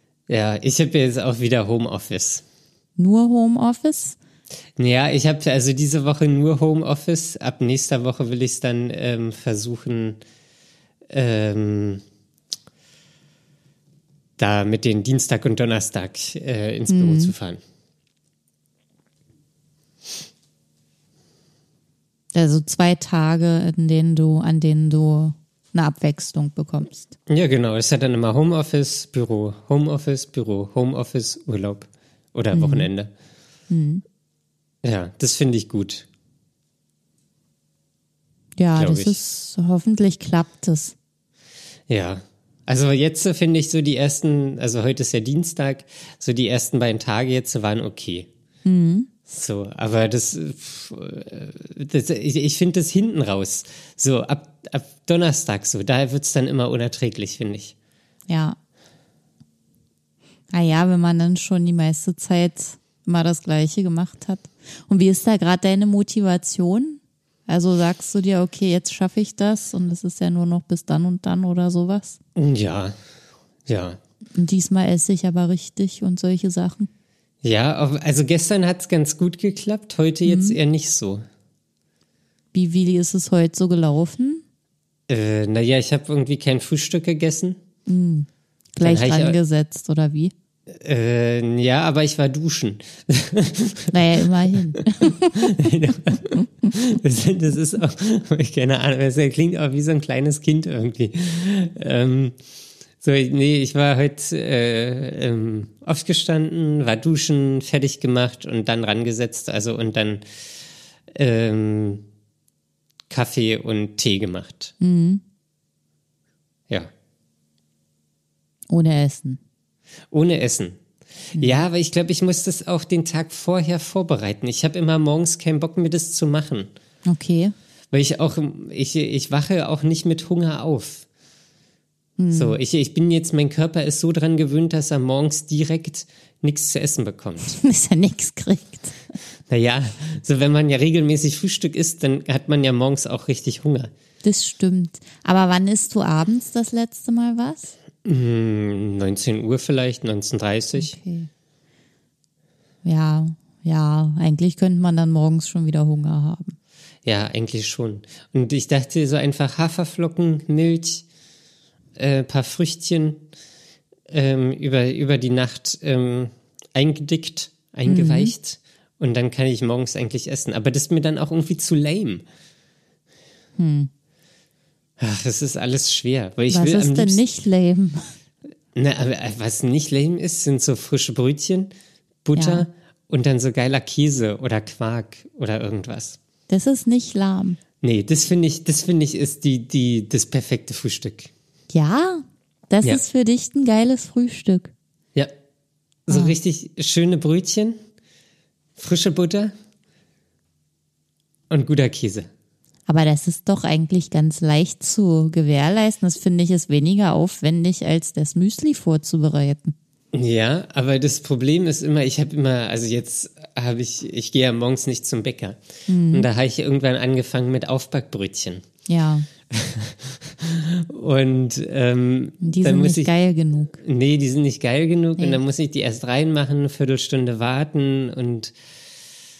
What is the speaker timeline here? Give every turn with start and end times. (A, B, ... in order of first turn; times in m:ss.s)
0:00.3-0:02.4 A
0:03.0-0:04.2 B
0:04.8-0:10.2 A
0:11.1-0:12.0 A
0:14.4-0:17.6 A
0:16.9-0:17.3 B
0:22.3-0:27.1 B
0:27.3-0:33.1 A
0:32.5-0:32.9 B
0:33.7-0:34.0 B
0:34.8-0:36.1 A
0:38.6-0:41.0 B
0:38.8-0:39.2 A
0:41.9-0:48.3 A
0:48.6-0:49.1 B
0:49.3-0:57.7 A
0:58.3-0:58.6 B
1:00.5-1:12.2 B
1:12.4-1:13.0 A
1:13.7-1:14.0 A
1:14.3-1:16.9 B
1:17.4-1:21.2 A
1:20.2-1:20.6 B
1:22.5-1:24.4 B
1:25.1-1:27.6 A
1:27.9-1:30.3 B
1:28.8-1:29.4 A
1:30.7-1:34.0 A
1:33.9-1:35.7 B
1:34.8-1:42.4 A
1:43.0-1:50.2 A
1:51.1-1:52.0 A
1:53.1-1:54.7 A
1:54.8-1:55.2 B
1:58.7-1:59.4 B
2:00.1-2:00.8 A
2:01.3-2:06.7 A
2:01.4-2:01.7 B
2:07.0-2:07.5 B
2:07.9-2:11.1 A
2:12.2-2:12.6 B
2:12.3-2:17.6 A
2:17.4-2:19.0 B
2:19.5-2:23.9 A
2:24.2-2:27.8 B
2:28.0-2:31.0 A
2:30.8-2:31.3 B
2:32.8-2:36.6 B
2:37.0-2:41.0 A
2:42.0-2:43.2 A
2:44.1-2:52.2 A
2:47.9-2:48.3 B
2:53.6-2:53.9 B
2:55.0-2:57.2 A
2:56.5-2:58.1 B
2:58.8-3:01.7 A
3:02.2-3:06.2 A
3:02.4-3:02.7 B
3:06.5-3:07.6 B
3:07.8-3:11.3 A
3:11.7-3:14.7 B
3:16.1-3:17.8 A
3:16.1-3:16.4 B
3:18.8-3:19.5 A
3:21.5-3:22.3 A
3:22.9-3:29.8 B
3:30.1-3:35.6 A
3:35.9-3:36.3 B
3:36.1-3:38.7 A
3:38.9-3:39.3 B
3:39.5-3:43.1 A
3:42.4-3:43.8 B
3:43.8-3:48.5 A